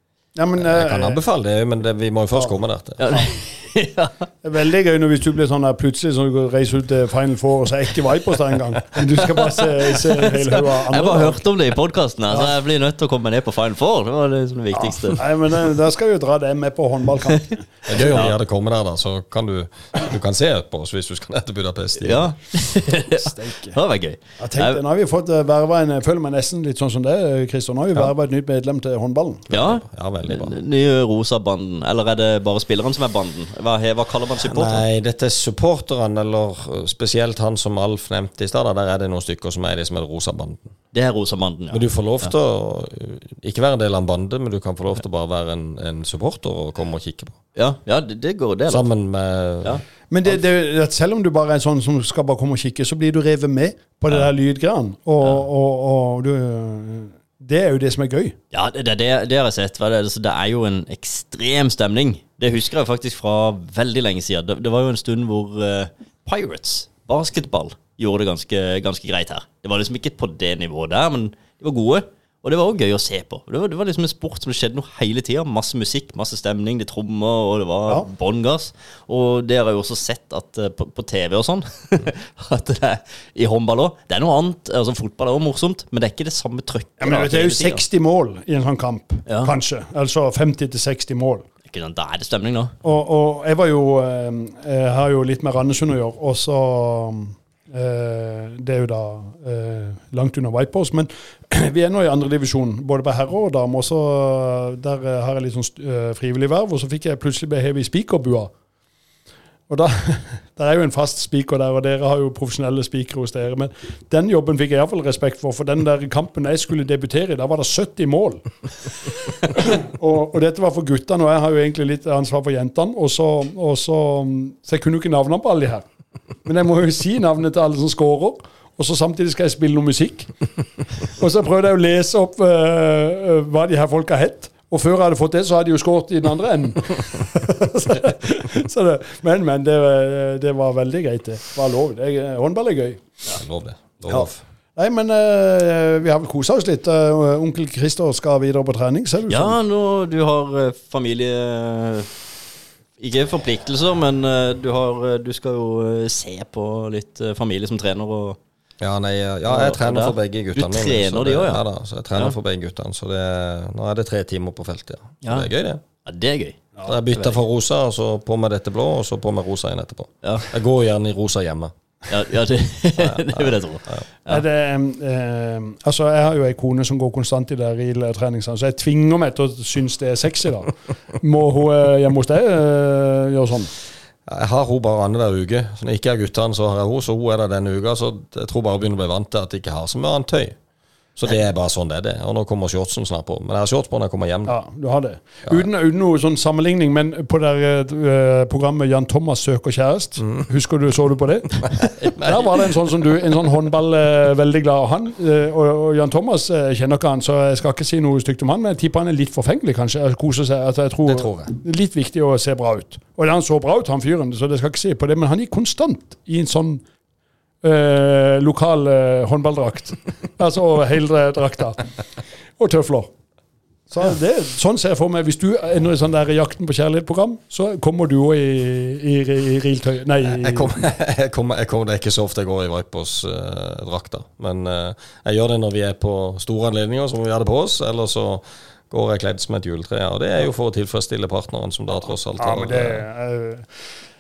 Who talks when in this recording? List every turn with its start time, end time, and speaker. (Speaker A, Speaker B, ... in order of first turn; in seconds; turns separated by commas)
Speaker A: 0.3-1.2, Speaker B: 0.6-3.1, Speaker C: 3.0-4.3, Speaker A: 4.4-11.4, Speaker C: 9.3-15.2, Speaker A: 14.7-18.1, Speaker B: 17.9-22.4, Speaker C: 18.0-18.3, Speaker C: 22.0-24.8, Speaker A: 23.1-23.8, Speaker A: 24.4-29.5, Speaker B: 29.5-30.6, Speaker C: 29.5-34.8, Speaker B: 34.4-40.8, Speaker C: 40.9-42.3, Speaker B: 41.7-47.4, Speaker C: 47.5-48.9, Speaker B: 48.7-49.8, Speaker A: 50.1-58.4, Speaker C: 58.5-87.8, Speaker A: 87.0-91.4, Speaker C: 89.3-89.5, Speaker C: 91.7-92.7, Speaker A: 92.8-108.5, Speaker A: 109.7-118.5, Speaker A: 119.4-125.8, Speaker A: 126.5-130.3, Speaker A: 131.0-143.1, Speaker B: 143.3-144.4, Speaker A: 144.1-149.6, Speaker C: 149.3-152.1, Speaker C: 153.0-158.4, Speaker B: 158.8-165.8, Speaker C: 159.5-161.6, Speaker C: 165.2-165.5, Speaker C: 166.0-167.3, Speaker B: 166.9-171.7, Speaker C: 170.2-170.5, Speaker C: 172.1-174.4, Speaker B: 173.0-174.0, Speaker A: 174.3-183.7, Speaker B: 184.3-190.6, Speaker B: 191.2-194.6, Speaker A: 194.5-216.8, Speaker B: 201.8-202.5, Speaker B: 211.1-211.6, Speaker A: 217.6-221.9, Speaker A: 222.6-223.1, Speaker A: 223.9-230.8, Speaker B: 230.2-243.0, Speaker A: 242.4-243.8